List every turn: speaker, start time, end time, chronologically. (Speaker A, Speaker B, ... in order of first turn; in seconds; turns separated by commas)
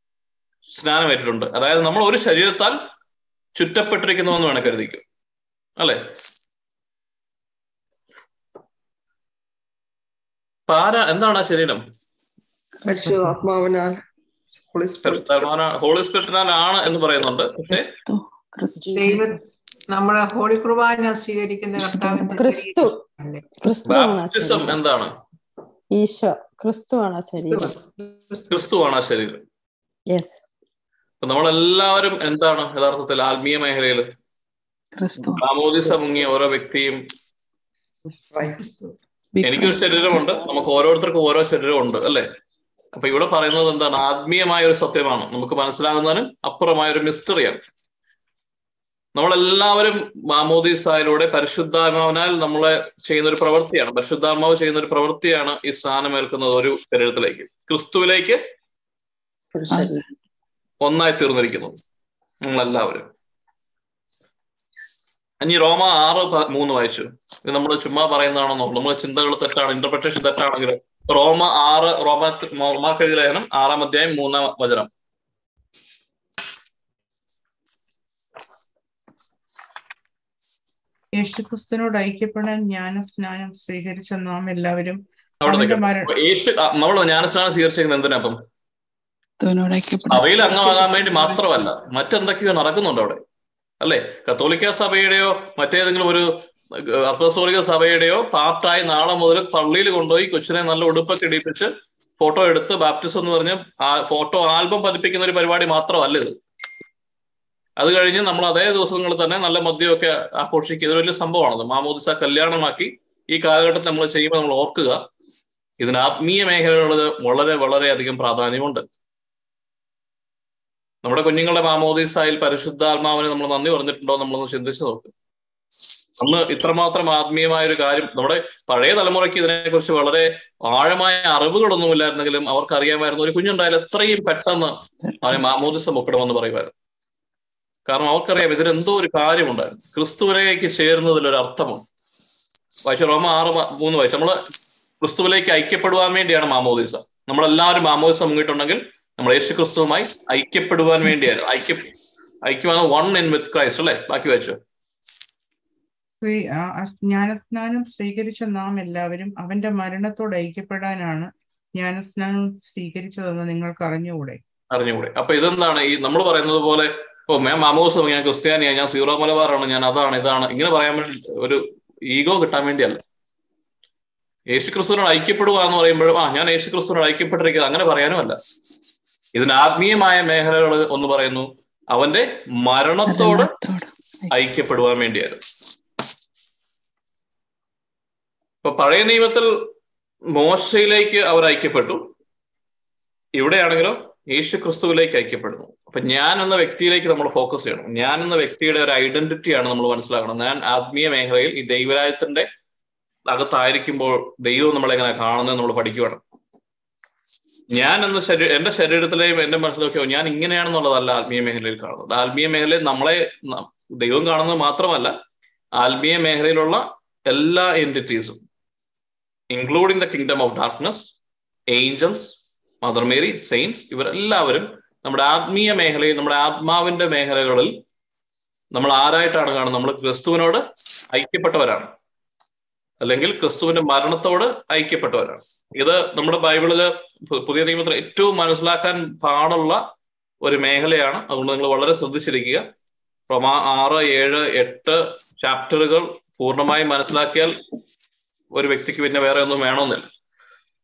Speaker A: 0.7-2.8, Speaker A: 3.5-5.0, Speaker A: 10.7-11.8, Speaker B: 12.8-14.0, Speaker B: 14.7-15.3, Speaker A: 15.0-17.9, Speaker C: 17.7-19.2, Speaker D: 18.9-23.4, Speaker C: 21.8-22.4, Speaker E: 22.3-22.9, Speaker E: 23.6-24.8, Speaker A: 23.9-25.1, Speaker E: 25.9-27.8, Speaker D: 27.5-28.4, Speaker A: 28.5-29.4, Speaker E: 30.1-30.4, Speaker A: 31.2-34.1, Speaker C: 35.0-35.5, Speaker A: 35.3-37.0, Speaker B: 38.3-38.9, Speaker C: 39.3-40.2, Speaker A: 39.4-42.3, Speaker A: 42.9-47.6, Speaker A: 49.1-58.4, Speaker B: 59.5-60.0, Speaker A: 60.8-61.8, Speaker A: 62.4-63.1, Speaker A: 65.4-74.9, Speaker F: 81.1-86.1, Speaker A: 85.4-88.4, Speaker C: 89.4-91.2, Speaker A: 90.1-93.2, Speaker A: 93.8-106.4, Speaker A: 107.8-115.0, Speaker A: 115.8-118.8, Speaker A: 121.0-125.1, Speaker A: 126.2-136.7, Speaker A: 137.9-141.8, Speaker A: 142.8-144.4, Speaker A: 145.0-151.9, Speaker A: 152.4-154.6, Speaker F: 156.2-164.4, Speaker A: 164.7-173.0, Speaker A: 174.5-178.4, Speaker A: 179.3-183.5, Speaker C: 183.1-184.3, Speaker A: 184.3-185.4, Speaker A: 188.6-189.5, Speaker A: 190.3-192.0, Speaker A: 193.3-202.5, Speaker A: 203.3-206.2, Speaker A: 207.7-215.1, Speaker A: 215.8-218.4, Speaker A: 219.5-221.1, Speaker A: 221.7-227.7, Speaker A: 228.7-231.9, Speaker A: 233.0-239.8, Speaker A: 240.4-242.7, Speaker A: 243.3-247.6, Speaker A: 248.5-250.1